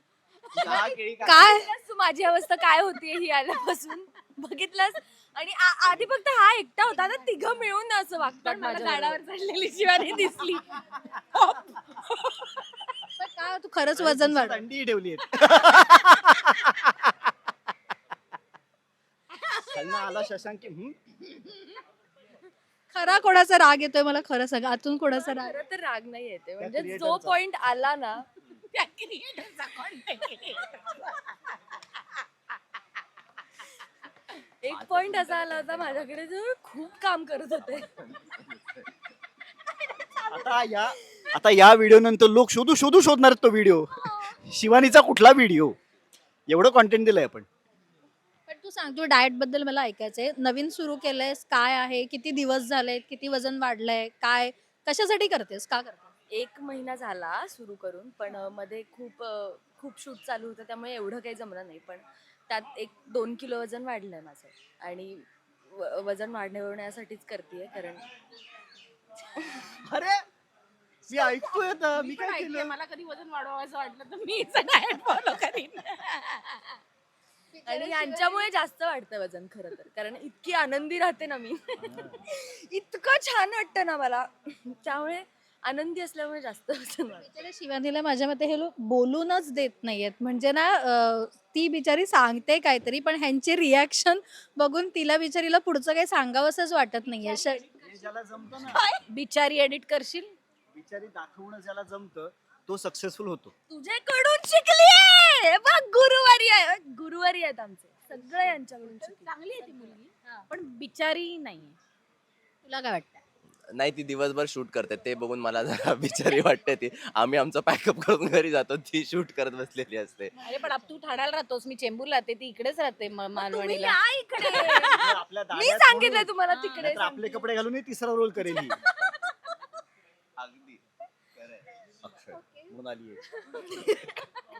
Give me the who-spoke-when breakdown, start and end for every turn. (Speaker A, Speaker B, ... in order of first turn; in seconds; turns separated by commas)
Speaker A: 0.5-1.7, Speaker B: 0.6-9.2, Speaker C: 1.2-1.6, Speaker D: 8.4-12.9, Speaker C: 13.2-14.6, Speaker E: 14.0-17.3, Speaker D: 19.3-20.2, Speaker E: 19.7-20.9, Speaker C: 22.9-25.5, Speaker B: 25.1-28.2, Speaker E: 26.6-27.4, Speaker D: 28.7-32.2, Speaker B: 34.6-38.0, Speaker A: 34.7-36.2, Speaker A: 37.7-38.8, Speaker B: 39.9-40.7, Speaker E: 40.3-45.8, Speaker B: 44.0-44.4, Speaker E: 46.5-47.5, Speaker C: 48.5-56.1, Speaker B: 56.3-68.0, Speaker B: 69.2-69.8, Speaker E: 69.8-70.2, Speaker E: 71.1-72.7, Speaker D: 71.1-76.8, Speaker C: 77.5-78.5, Speaker B: 77.7-87.3, Speaker E: 81.8-82.2, Speaker C: 87.2-97.7, Speaker E: 97.7-98.9, Speaker D: 98.7-100.3, Speaker E: 100.7-103.5, Speaker B: 103.7-109.2, Speaker D: 109.1-111.8, Speaker C: 112.6-113.2, Speaker A: 113.7-120.3, Speaker D: 120.4-125.1, Speaker B: 123.4-125.0, Speaker E: 124.8-128.8, Speaker B: 125.5-127.5, Speaker D: 126.5-126.9, Speaker A: 130.4-130.8, Speaker A: 131.3-132.4, Speaker C: 132.3-132.7, Speaker E: 132.7-133.2, Speaker B: 133.3-134.3